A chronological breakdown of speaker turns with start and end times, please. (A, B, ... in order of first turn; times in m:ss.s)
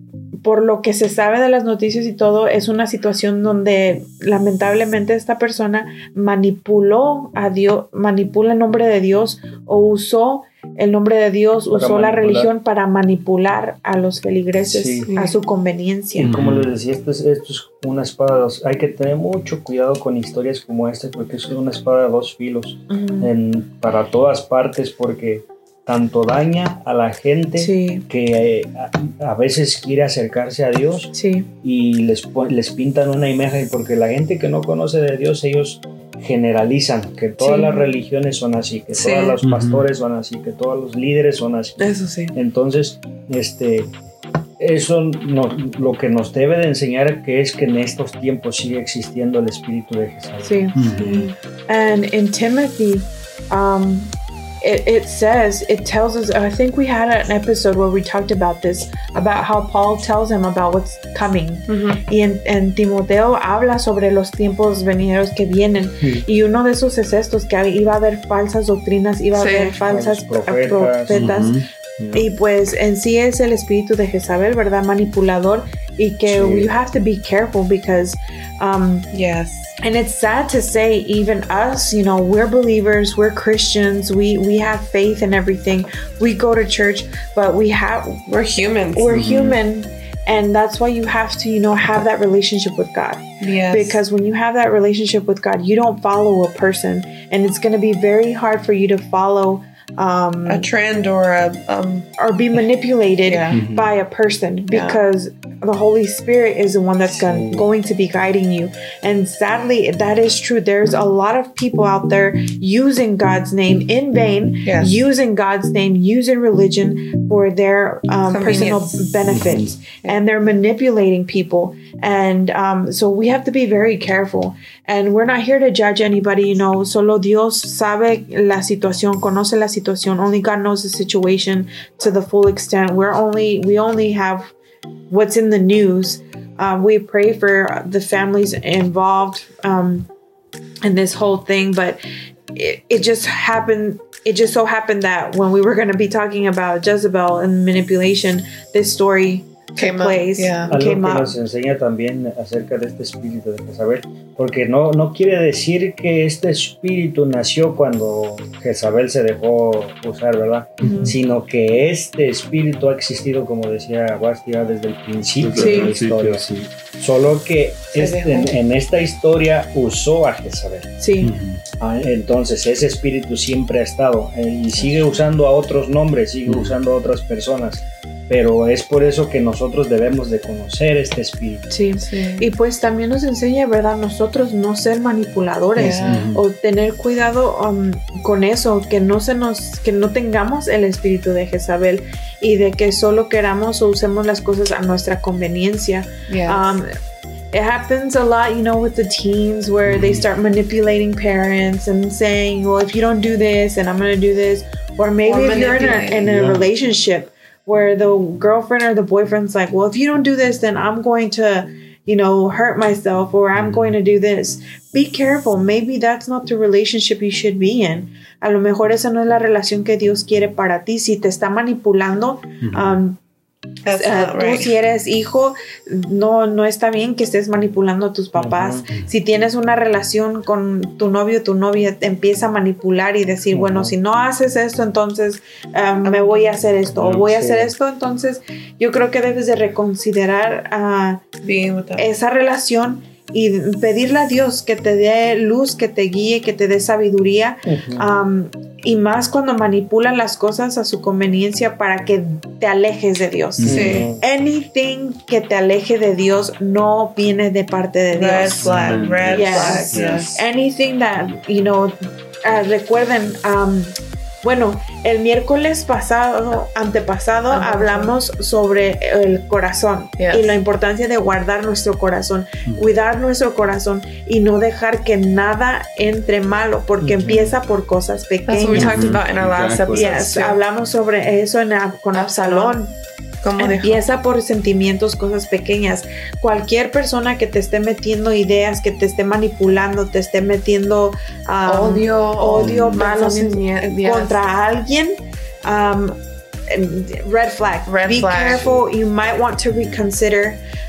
0:00.4-0:16.3 A
0:11.7-0:12.5 B
0:14.7-0:15.1 B
0:15.1-0:15.4 C
0:16.2-0:16.7 D
0:16.2-0:43.9 B
0:22.9-0:23.3 A
0:27.6-0:28.1 A
0:31.1-0:31.5 A
0:37.4-0:37.8 A
0:38.9-0:39.4 C
0:39.4-0:39.9 D
0:41.8-0:42.3 C
0:44.6-0:50.8 B
0:50.4-0:50.8 A
0:50.8-0:51.3 D
0:50.8-0:51.4 C
0:51.7-1:11.6 A
1:01.7-1:02.0 C
1:06.0-1:06.3 B
1:09.3-1:09.8 C
1:09.9-1:11.5 B
1:11.1-1:11.7 D
1:12.0-1:12.3 B
1:12.1-1:19.1 A
1:16.2-1:16.7 B
1:19.1-1:19.7 C
1:19.8-1:28.3 A
1:28.3-1:29.1 C
1:29.0-1:40.7 A
1:29.1-1:29.6 D
1:33.4-1:34.0 C
1:40.5-1:42.1 C
1:42.2-2:14.5 A
1:43.2-1:43.6 C
1:43.5-1:43.9 D
1:44.7-1:45.0 C
1:47.1-1:47.6 B
1:54.6-1:54.9 C
1:58.3-1:59.0 C
1:59.3-1:59.7 D
2:15.1-2:20.1 A
2:20.8-2:22.0 A
2:22.5-2:31.4 A
2:29.8-2:30.7 C
2:30.7-2:50.9 B
2:40.8-2:41.2 A
2:45.4-2:46.7 D
2:45.6-2:45.9 A
2:47.9-2:48.5 C
2:51.0-2:51.3 A
2:51.2-2:51.6 D
2:51.8-3:01.7 B
2:56.5-2:56.8 D
3:01.7-3:16.9 A
3:02.0-3:02.5 C
3:05.8-3:06.3 C
3:05.8-3:06.4 D
3:16.3-3:16.8 C
3:17.5-3:43.2 A
3:19.9-3:20.2 D
3:25.3-3:26.3 C
3:26.2-3:26.6 D
3:33.6-3:33.9 D
3:42.6-3:43.0 D
3:43.8-3:44.7 C
3:44.0-4:01.3 A
3:48.4-3:48.9 B
3:53.5-3:54.0 B
3:56.0-3:56.6 C
3:56.9-3:57.7 B
4:01.4-4:02.1 C
4:02.0-4:39.2 A
4:07.7-4:08.1 B
4:13.6-4:14.0 D
4:13.6-4:14.2 B
4:13.7-4:14.1 C
4:18.1-4:20.4 C
4:18.6-4:20.4 D
4:27.5-4:28.2 C
4:30.2-4:30.6 C
4:32.7-4:32.9 D
4:37.0-4:37.6 B
4:38.5-4:40.6 C
4:38.7-4:40.3 D
4:39.9-4:43.0 A
4:42.1-4:42.8 C
4:43.4-4:44.0 C
4:43.6-4:56.2 A
4:51.7-4:54.4 C
4:52.6-4:53.0 D
4:56.7-5:00.6 A
4:57.9-4:58.7 C
4:58.5-4:58.9 B